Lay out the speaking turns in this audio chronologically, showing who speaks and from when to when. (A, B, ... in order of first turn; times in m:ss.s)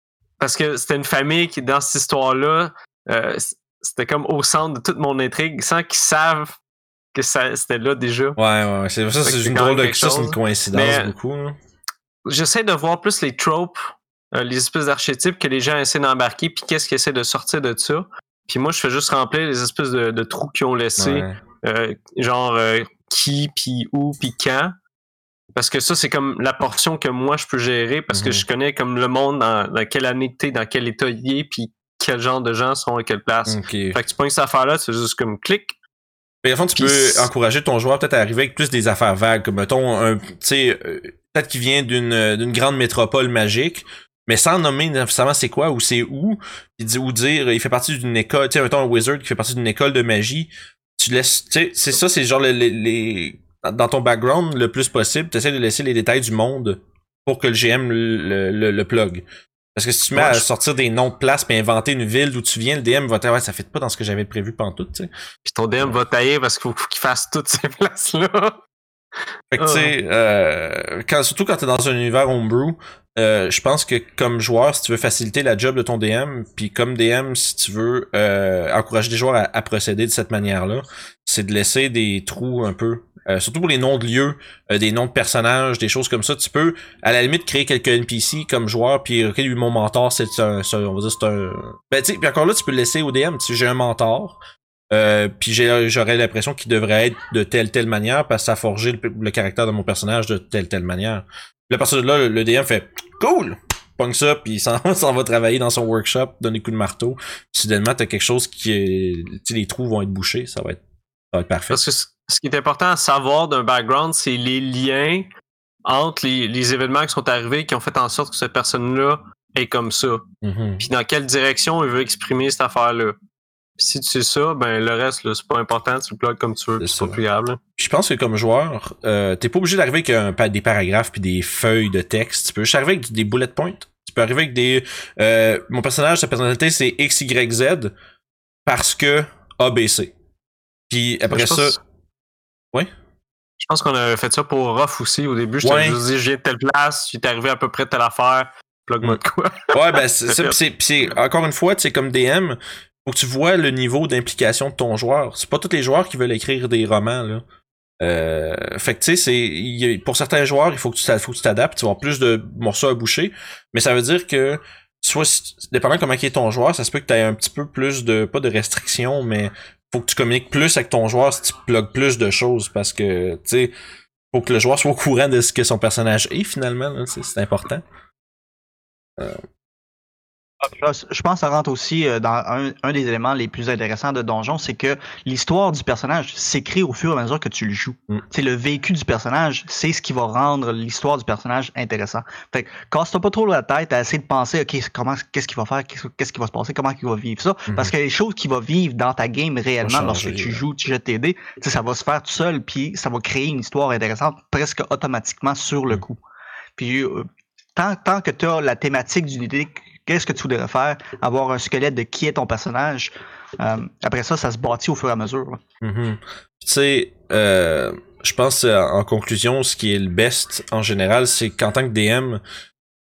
0:00.4-0:06.6 A
0:07.1-0:08.4 A
0:08.4-0:11.6 B
0:09.2-0:11.2 A
0:12.3-0:24.7 A
0:21.0-0:21.4 B
0:25.6-0:35.8 A
0:28.1-0:28.5 B
0:33.5-0:34.0 B
0:36.4-1:05.1 B
0:36.8-0:37.3 A
1:00.1-1:00.5 A
1:05.5-1:08.6 A
1:09.5-1:34.4 B
1:09.6-1:10.0 A
1:34.9-1:50.8 B
1:51.3-1:51.8 B
1:51.7-1:55.3 A
1:55.8-2:00.3 A
2:00.4-2:00.9 B
2:00.8-2:03.2 A
2:03.8-2:07.6 A
2:06.8-2:07.2 B
2:07.8-2:17.9 B
2:18.7-2:20.1 B
2:20.9-2:21.8 B
2:21.3-2:21.8 A
2:23.6-2:30.6 A
2:25.6-2:26.0 B
2:29.7-2:37.4 B
2:38.0-2:53.7 B
2:54.3-2:57.8 B
3:00.6-3:26.2 C
3:19.8-3:20.6 B
3:26.8-3:27.2 C
3:27.8-3:35.6 C
3:35.8-3:42.4 B